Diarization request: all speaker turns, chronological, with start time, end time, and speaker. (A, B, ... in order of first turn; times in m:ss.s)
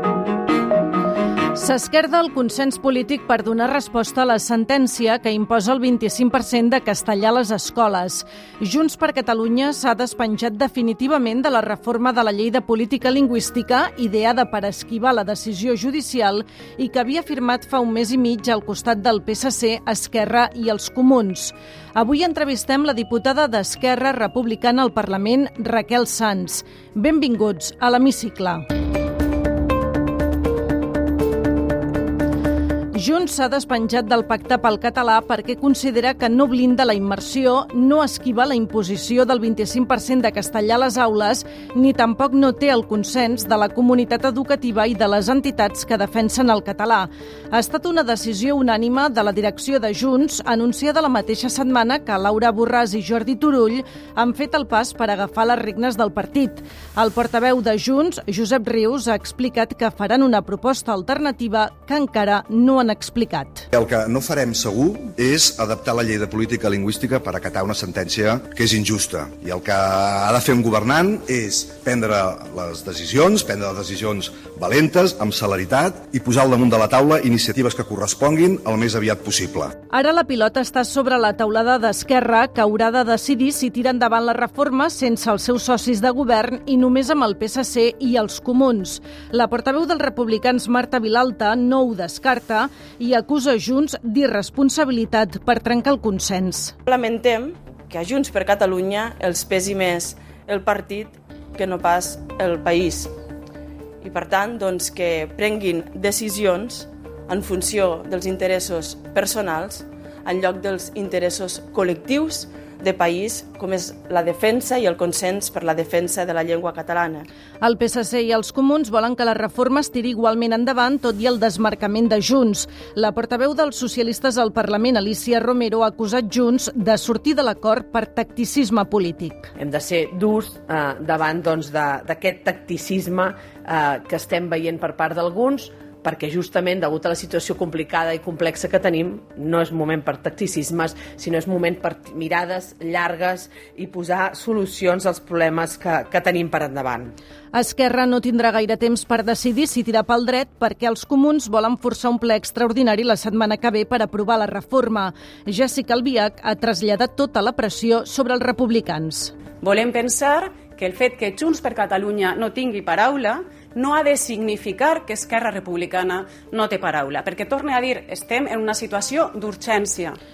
0:01.5-0:28.6 A
0:32.9-1:03.7 A
1:03.7-1:19.7 B
1:19.9-1:36.7 A
1:36.8-1:43.1 C
1:44.0-1:57.2 C
1:57.6-2:09.5 A
2:09.6-2:27.1 D
2:27.5-2:39.3 A
2:39.6-2:50.2 E